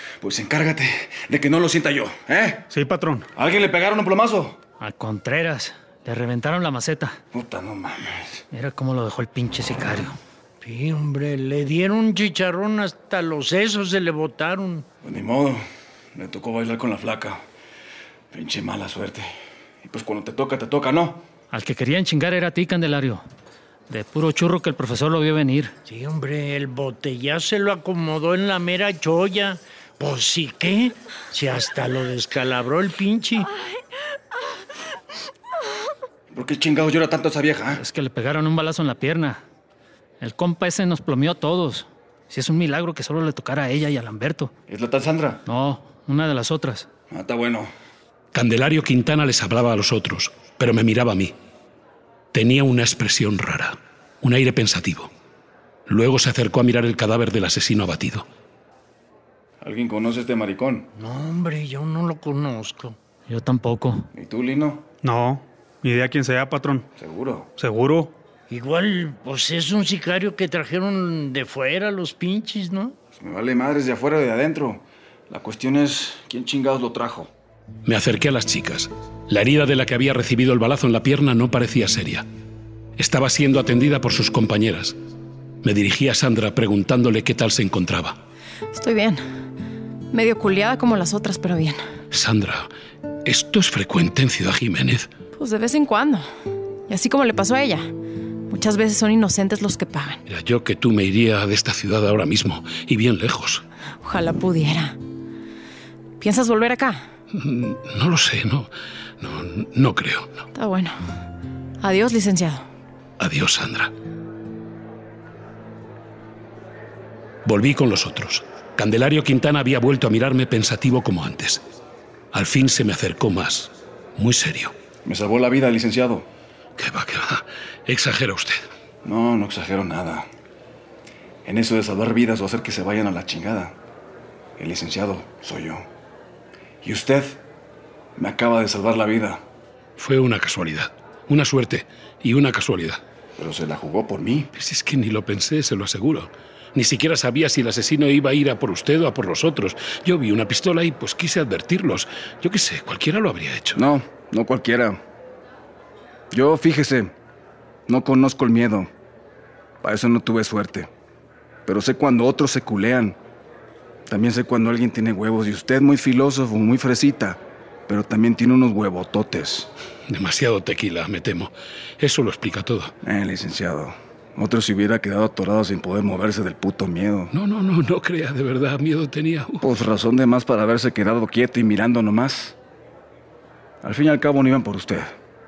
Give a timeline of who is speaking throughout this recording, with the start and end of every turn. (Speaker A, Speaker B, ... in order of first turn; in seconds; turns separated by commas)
Speaker A: 0.2-2.7, Speaker B: 2.7-3.3, Speaker A: 3.4-4.6, Speaker C: 4.8-7.2, Speaker A: 7.3-8.4, Speaker C: 8.5-10.2, Speaker D: 10.6-14.9, Speaker A: 15.0-15.6, Speaker A: 16.1-17.4, Speaker A: 18.3-19.3, Speaker A: 19.8-21.2, Speaker C: 21.5-23.2, Speaker C: 23.9-25.7, Speaker D: 25.9-33.5, Speaker A: 36.3-37.8, Speaker C: 37.8-39.4, Speaker C: 40.2-44.5, Speaker A: 44.7-45.4, Speaker C: 45.5-46.9, Speaker A: 47.1-47.7, Speaker E: 48.3-51.3, Speaker E: 52.3-55.1, Speaker E: 55.9-58.3, Speaker A: 59.6-60.9, Speaker D: 61.0-63.0, Speaker C: 63.3-64.1, Speaker A: 64.1-64.9, Speaker B: 65.0-66.9, Speaker A: 67.0-67.5, Speaker B: 67.6-68.1, Speaker D: 68.5-73.0, Speaker A: 73.2-77.3, Speaker E: 77.9-82.3, Speaker E: 83.0-85.0, Speaker E: 85.6-88.2, Speaker F: 88.7-89.2, Speaker F: 90.1-91.8, Speaker E: 92.1-92.7, Speaker E: 93.2-95.1, Speaker F: 95.4-96.3, Speaker F: 96.9-97.9, Speaker F: 98.5-100.2, Speaker E: 100.3-103.6, Speaker F: 104.0-105.0, Speaker F: 106.2-107.1, Speaker E: 107.3-110.5, Speaker F: 110.5-111.0, Speaker F: 111.8-112.7, Speaker E: 113.2-113.9, Speaker E: 117.5-121.6, Speaker E: 122.3-124.7, Speaker A: 125.0-126.3, Speaker E: 126.8-128.6, Speaker A: 129.0-130.3, Speaker A: 131.4-133.8, Speaker A: 134.6-135.9, Speaker A: 136.8-137.4, Speaker A: 138.2-139.4, Speaker E: 140.0-143.0, Speaker A: 143.4-144.5, Speaker E: 144.5-153.8, Speaker A: 153.8-155.0, Speaker A: 156.3-157.1, Speaker A: 157.9-158.9, Speaker A: 159.8-160.9, Speaker A: 161.7-163.2, Speaker A: 164.1-169.7, Speaker E: 170.1-172.9, Speaker A: 173.0-177.3, Speaker E: 177.3-179.7, Speaker A: 179.6-182.6, Speaker A: 183.8-185.1